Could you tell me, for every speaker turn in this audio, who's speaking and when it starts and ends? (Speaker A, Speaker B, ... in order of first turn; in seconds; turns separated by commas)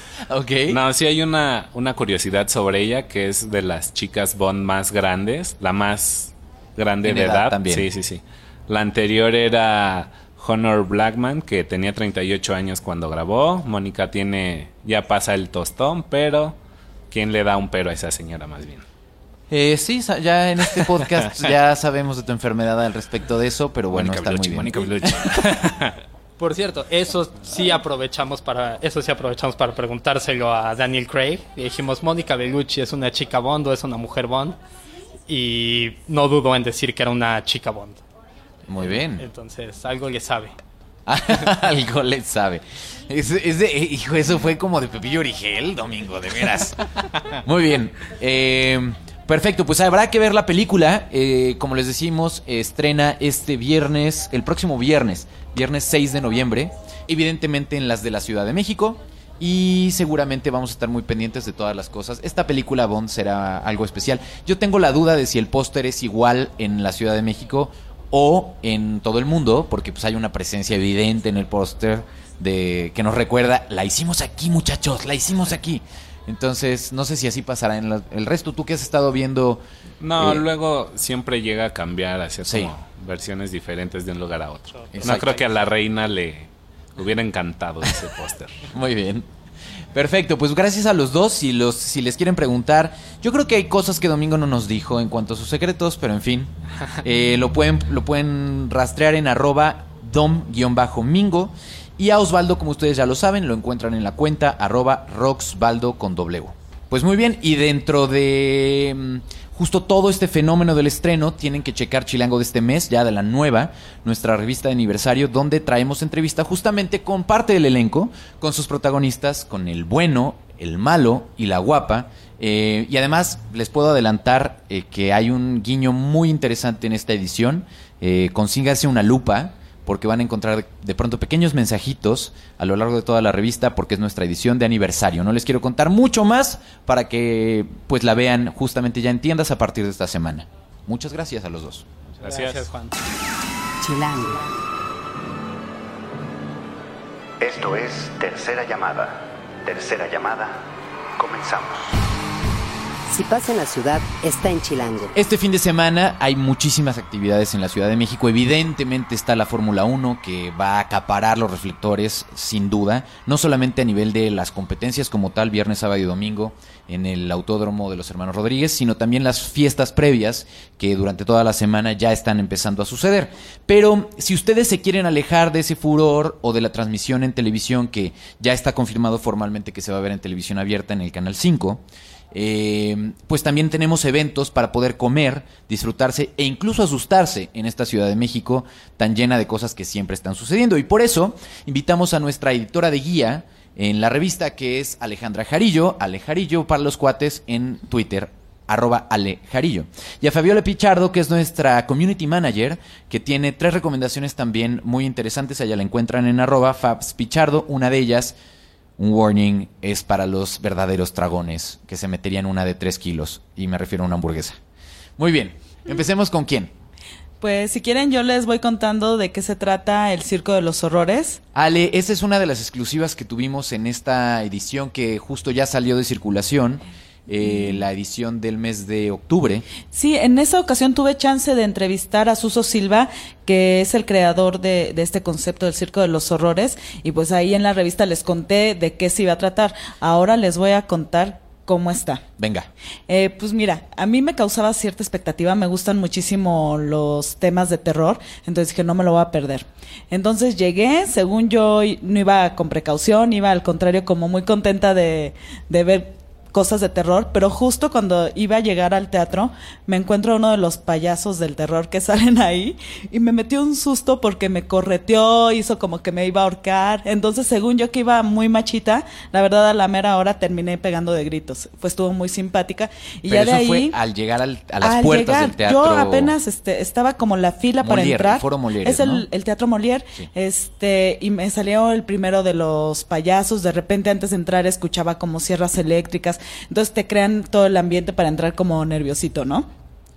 Speaker A: 0.2-0.8, Speaker B: 0.7-16.6, Speaker A: 7.0-7.9, Speaker B: 17.1-18.9, Speaker A: 19.5-25.3, Speaker B: 23.9-25.9, Speaker C: 26.4-34.6, Speaker C: 35.3-38.0, Speaker A: 38.7-39.2, Speaker C: 39.1-40.5, Speaker A: 41.1-79.6, Speaker B: 80.0-88.6, Speaker A: 80.2-80.4, Speaker A: 82.4-82.7, Speaker C: 84.8-85.2, Speaker A: 84.9-85.4, Speaker A: 88.7-89.2, Speaker A: 89.9-141.8, Speaker C: 142.2-143.0, Speaker B: 142.2-142.6, Speaker D: 143.8-144.5, Speaker E: 147.4-152.0, Speaker D: 153.1-155.1, Speaker A: 155.1-208.3, Speaker A: 209.0-214.6, Speaker A: 215.2-216.7, Speaker F: 217.4-221.4, Speaker A: 221.5-229.7, Speaker F: 229.8-242.2, Speaker A: 242.4-242.7, Speaker F: 243.1-274.0, Speaker A: 273.3-276.4, Speaker F: 274.8-289.7, Speaker A: 277.8-279.3